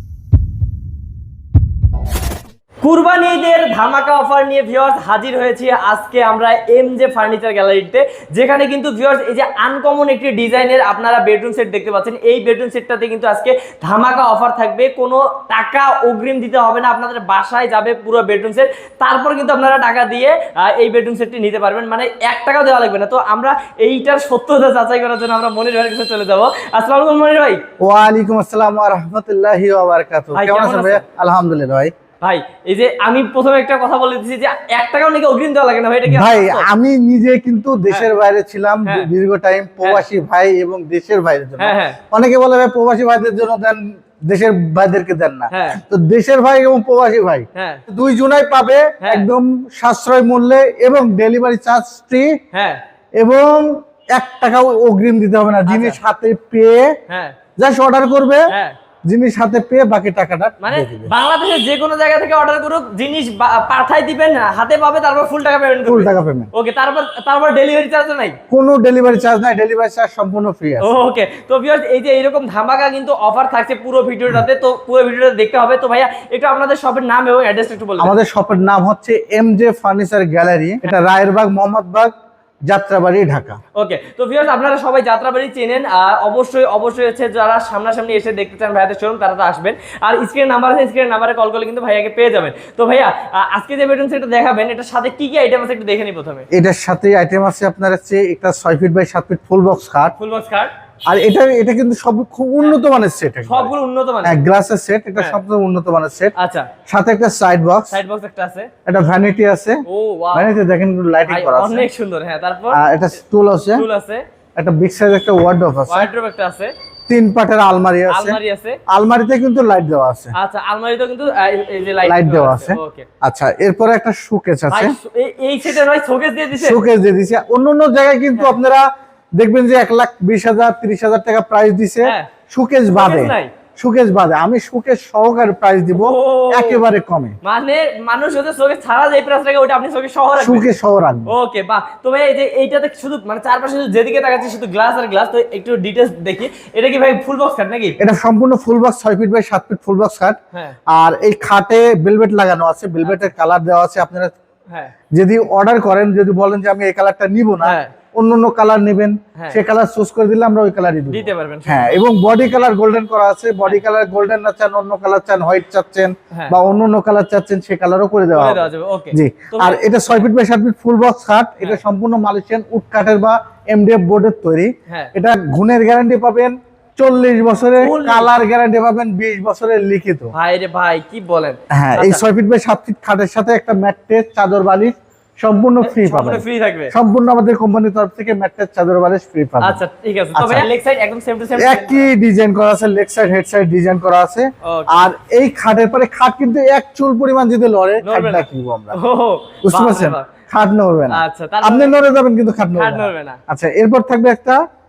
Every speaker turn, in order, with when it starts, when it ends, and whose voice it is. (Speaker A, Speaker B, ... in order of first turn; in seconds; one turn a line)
Speaker A: 2.8-27.6
Speaker B: 27.8-31.9
Speaker A: 30.3-31.0
Speaker A: 32.2-36.7
Speaker B: 36.1-52.3
Speaker A: 39.8-40.1
Speaker A: 41.6-42.0
Speaker A: 45.5-45.8
Speaker A: 47.5-47.8
Speaker A: 49.0-49.3
Speaker A: 52.5-52.8
Speaker B: 53.2-56.9
Speaker A: 55.7-56.0
Speaker A: 57.1-57.4
Speaker B: 57.6-58.5
Speaker A: 58.5-58.8
Speaker B: 59.1-61.1
Speaker A: 60.6-68.4
Speaker B: 65.8-66.5
Speaker B: 68.5-70.9
Speaker A: 70.8-78.1
Speaker B: 78.0-82.1
Speaker B: 82.7-83.6
Speaker A: 83.8-96.5
Speaker B: 96.5-100.2
Speaker A: 100.2-100.7
Speaker B: 101.1-103.7
Speaker A: 103.5-104.4
Speaker B: 104.2-106.3
Speaker A: 106.4-106.7
Speaker B: 106.9-108.0
Speaker A: 107.9-108.7
Speaker B: 108.9-109.8
Speaker A: 109.9-110.5
Speaker B: 110.3-111.9
Speaker A: 111.3-112.8
Speaker B: 112.7-113.8
Speaker A: 113.7-114.2
Speaker B: 114.6-116.1
Speaker A: 115.9-116.7
Speaker B: 117.1-118.4
Speaker A: 118.1-118.8
Speaker B: 118.9-120.3
Speaker A: 120.3-123.1
Speaker B: 122.0-125.0
Speaker A: 124.7-126.8
Speaker B: 126.6-128.8
Speaker B: 129.4-137.4
Speaker A: 132.0-132.3
Speaker A: 132.9-133.5
Speaker A: 135.9-136.8
Speaker A: 137.4-140.7
Speaker B: 140.4-141.3
Speaker A: 141.3-148.0
Speaker B: 148.0-150.4
Speaker B: 150.9-154.3
Speaker A: 153.0-153.3
Speaker B: 155.2-180.3
Speaker A: 157.6-157.9
Speaker A: 159.4-159.6
Speaker A: 161.1-162.0
Speaker A: 168.3-169.8
Speaker A: 177.8-178.3
Speaker A: 180.3-182.2
Speaker B: 181.7-189.8
Speaker A: 185.8-186.9
Speaker A: 189.6-192.1
Speaker B: 190.3-190.7
Speaker B: 191.6-199.0
Speaker A: 194.6-195.1
Speaker A: 198.0-200.3
Speaker B: 199.6-204.6
Speaker A: 201.1-202.0
Speaker A: 202.7-203.4